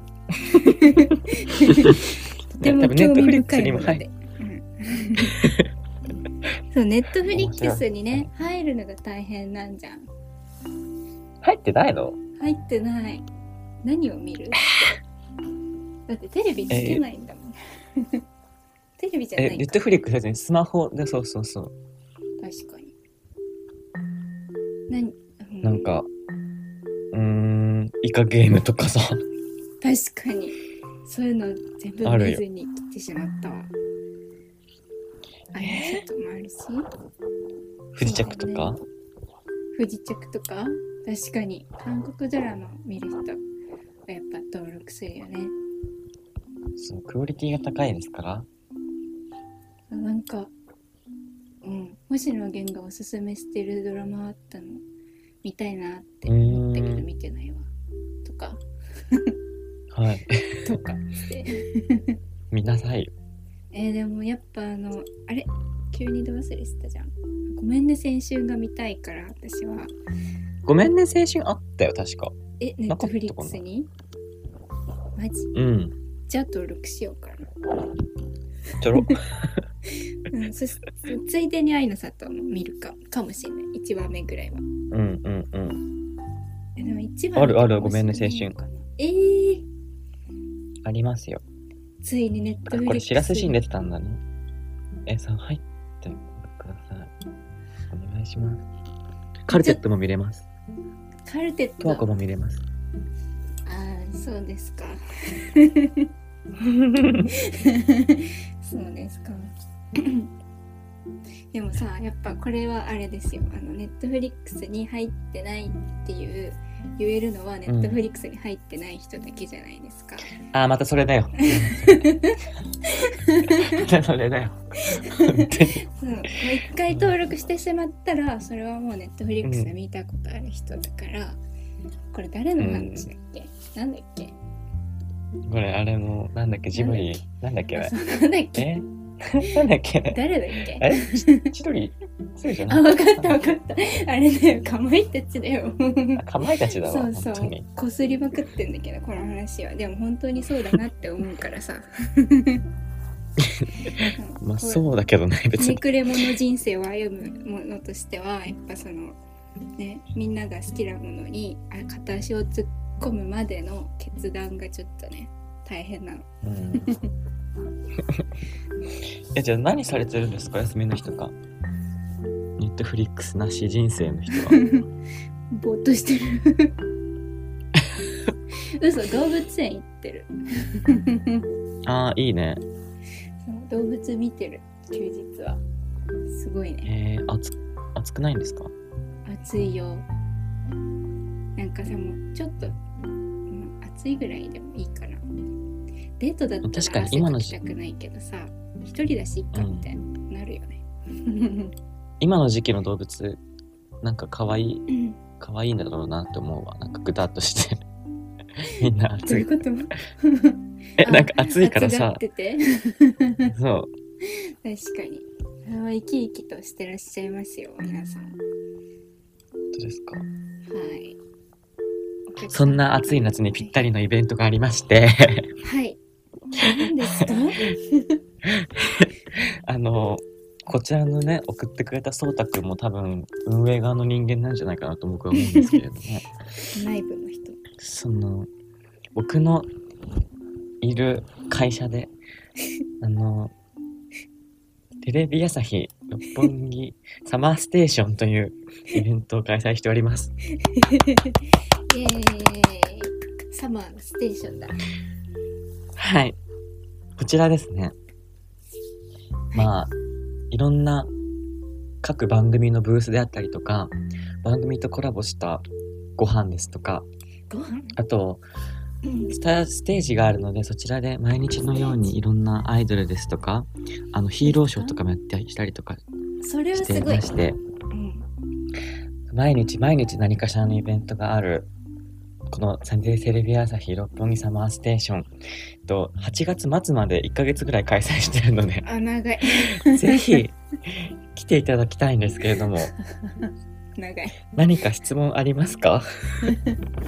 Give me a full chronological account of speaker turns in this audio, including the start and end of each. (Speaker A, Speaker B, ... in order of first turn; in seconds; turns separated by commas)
Speaker A: 0.5-1.1, Speaker B: 0.5-5.3, Speaker A: 1.7-2.0, Speaker A: 2.6-4.0, Speaker A: 5.2-5.7, Speaker B: 6.7-10.1, Speaker A: 7.3-8.3, Speaker A: 11.4-12.2, Speaker B: 12.4-13.3, Speaker B: 13.8-15.0, Speaker B: 16.1-18.2, Speaker A: 16.7-17.0, Speaker B: 19.0-19.8, Speaker A: 19.4-21.7, Speaker B: 22.4-22.9, Speaker B: 24.9-25.9, Speaker A: 25.6-26.1, Speaker A: 27.1-29.2, Speaker B: 29.8-33.7, Speaker A: 32.0-32.4, Speaker B: 35.5-36.9, Speaker A: 35.6-36.0, Speaker A: 37.9-38.8, Speaker B: 38.0-38.8, Speaker B: 39.7-43.4, Speaker B: 44.1-45.5, Speaker A: 46.8-48.5, Speaker B: 49.9-50.5, Speaker B: 51.6-54.8, Speaker B: 55.4-57.7, Speaker A: 56.3-57.1, Speaker B: 58.2-59.3, Speaker A: 59.9-60.6, Speaker B: 60.6-62.1, Speaker A: 62.5-63.1, Speaker B: 63.7-69.9, Speaker A: 70.7-72.4, Speaker B: 72.6-73.9, Speaker A: 72.9-73.6, Speaker B: 75.2-75.5, Speaker A: 75.5-76.0, Speaker B: 76.3-77.5, Speaker A: 78.8-79.6, Speaker B: 80.3-84.6, Speaker A: 84.9-85.8, Speaker B: 86.8-89.7, Speaker A: 87.3-88.5, Speaker A: 90.8-91.4, Speaker B: 92.0-93.6, Speaker A: 92.7-94.2, Speaker A: 95.1-97.1, Speaker A: 97.9-98.6, Speaker A: 99.5-100.5, Speaker B: 99.5-99.8, Speaker B: 101.3-102.1, Speaker A: 101.8-102.6, Speaker B: 103.7-106.1, Speaker A: 106.6-107.3, Speaker B: 107.3-110.3, Speaker B: 111.5-120.3, Speaker A: 117.7-118.0, Speaker A: 120.5-122.1, Speaker B: 121.4-123.8, Speaker A: 123.4-125.8, Speaker B: 124.9-131.4, Speaker A: 129.4-129.7, Speaker B: 132.1-134.3, Speaker A: 132.6-133.1, Speaker A: 135.5-137.9, Speaker B: 136.7-137.2, Speaker B: 137.7-138.7, Speaker A: 138.6-140.2, Speaker B: 140.1-141.5, Speaker A: 140.8-143.5, Speaker B: 142.7-152.6, Speaker A: 146.2-147.7, Speaker A: 153.4-155.8, Speaker B: 154.0-154.9, Speaker B: 155.6-159.2, Speaker B: 159.8-166.3, Speaker A: 166.4-166.9, Speaker B: 166.8-167.1, Speaker A: 169.3-171.3, Speaker A: 172.6-174.6, Speaker B: 174.3-174.9, Speaker B: 175.5-176.7, Speaker A: 177.8-178.3, Speaker B: 178.8-181.4, Speaker A: 181.8-182.6, Speaker B: 183.4-185.6, Speaker B: 186.3-186.9, Speaker A: 186.9-188.7, Speaker B: 189.3-190.1, Speaker B: 191.6-192.8, Speaker B: 193.5-195.3, Speaker B: 196.2-201.7, Speaker A: 196.6-197.6, Speaker A: 199.5-199.9, Speaker A: 202.2-203.4, Speaker A: 204.0-204.9, Speaker B: 204.9-205.2, Speaker A: 205.4-207.8, Speaker A: 208.6-209.5, Speaker B: 209.3-213.5, Speaker A: 211.0-212.2, Speaker A: 213.5-213.9, Speaker B: 214.3-218.4, Speaker A: 219.7-220.3, Speaker B: 220.7-221.2, Speaker B: 222.3-223.8, Speaker A: 222.5-225.5, Speaker B: 225.6-226.0, Speaker B: 226.6-228.2, Speaker A: 228.4-236.3, Speaker B: 235.4-235.8, Speaker B: 236.7-237.6, Speaker A: 237.8-238.5, Speaker A: 239.2-239.7, Speaker A: 240.8-242.1, Speaker A: 243.0-243.5, Speaker A: 245.0-250.3, Speaker B: 250.6-251.4, Speaker B: 251.9-254.8, Speaker A: 256.0-256.4, Speaker A: 257.2-257.9, Speaker A: 259.5-259.9, Speaker A: 260.5-261.1, Speaker A: 262.0-265.7, Speaker A: 266.2-267.1, Speaker B: 267.5-268.0, Speaker A: 267.9-268.4, Speaker B: 269.0-269.3, Speaker A: 269.3-276.0, Speaker B: 274.4-275.0, Speaker B: 276.4-277.3, Speaker A: 276.7-277.6, Speaker B: 277.9-278.3, Speaker A: 279.3-281.7, Speaker A: 282.5-285.3, Speaker A: 285.9-288.9, Speaker B: 288.9-290.4, Speaker A: 289.8-292.9, Speaker B: 293.2-294.4, Speaker A: 294.5-296.6